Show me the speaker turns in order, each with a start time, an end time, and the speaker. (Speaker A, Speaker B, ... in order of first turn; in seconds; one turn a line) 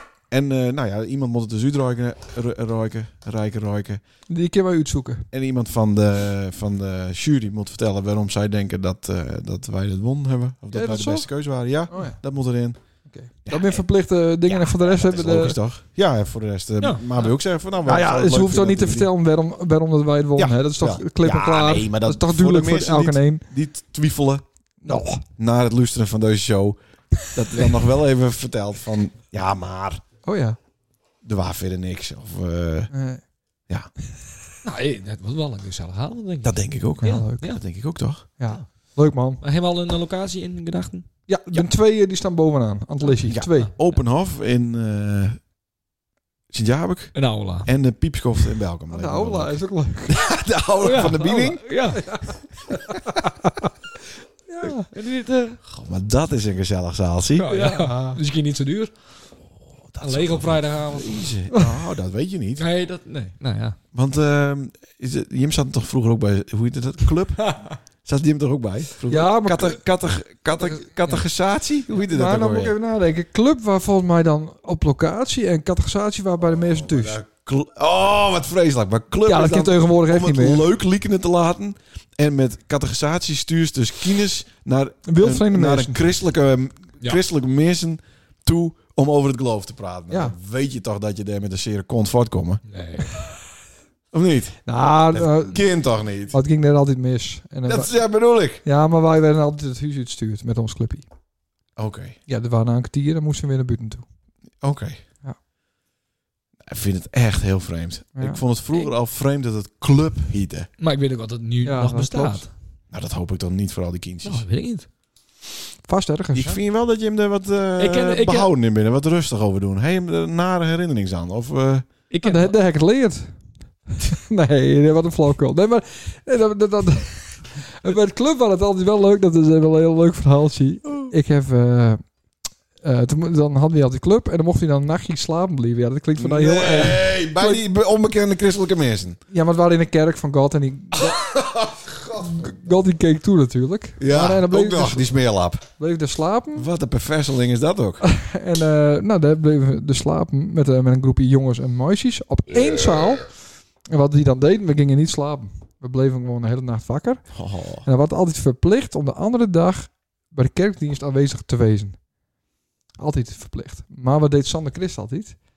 Speaker A: 0.3-4.0
Speaker B: 4.3-5.3
Speaker A: 5.3-12.8
Speaker B: 10.7-11.3
Speaker B: 11.9-12.2
Speaker B: 13.1-15.6
Speaker A: 13.5-13.8
Speaker A: 14.5-19.1
Speaker C: 16.8-17.3
Speaker B: 17.9-23.5
Speaker A: 20.4-24.4
Speaker B: 24.8-25.2
Speaker A: 25.4-30.0
Speaker B: 30.2-30.6
Speaker A: 31.2-32.9
Speaker B: 32.9-33.2
Speaker C: 34.6-37.6
Speaker A: 36.4-38.2
Speaker B: 37.0-37.4
Speaker B: 38.4-39.4
Speaker C: 39.4-41.1
Speaker B: 41.3-43.7
Speaker A: 43.2-45.4
Speaker A: 46.5-51.8
Speaker C: 47.1-47.7
Speaker B: 48.9-50.1
Speaker C: 50.8-52.2
Speaker B: 54.5-54.9
Speaker C: 54.9-55.6
Speaker A: 55.6-57.5
Speaker C: 57.4-58.9
Speaker B: 57.5-58.2
Speaker A: 59.6-62.7
Speaker C: 60.0-61.2
Speaker C: 62.6-63.8
Speaker A: 63.9-72.8
Speaker C: 67.5-67.7
Speaker B: 69.1-69.8
Speaker B: 72.1-77.2
Speaker A: 76.4-92.6
Speaker B: 79.3-80.7
Speaker B: 85.1-86.0
Speaker C: 92.7-93.2
Speaker A: 94.1-96.4
Speaker B: 94.7-95.7
Speaker B: 96.3-97.9
Speaker A: 97.7-98.6
Speaker B: 98.6-101.1
Speaker A: 101.8-102.2
Speaker B: 102.3-104.1
Speaker A: 104.6-105.0
Speaker A: 106.7-110.7
Speaker B: 108.2-108.4
Speaker C: 110.8-112.5
Speaker B: 111.6-112.4
Speaker A: 112.9-114.5
Speaker C: 114.2-114.9
Speaker B: 115.9-116.5
Speaker A: 116.3-121.9
Speaker C: 117.8-118.5
Speaker C: 122.1-122.6
Speaker B: 122.2-123.3
Speaker B: 123.9-132.0
Speaker B: 132.8-137.6
Speaker A: 136.2-139.2
Speaker B: 139.3-141.3
Speaker A: 140.9-142.4
Speaker B: 142.2-145.1
Speaker A: 144.0-145.7
Speaker B: 145.8-146.7
Speaker A: 146.6-148.0
Speaker B: 148.0-153.3
Speaker B: 153.9-162.1
Speaker A: 157.3-157.9
Speaker B: 163.0-165.4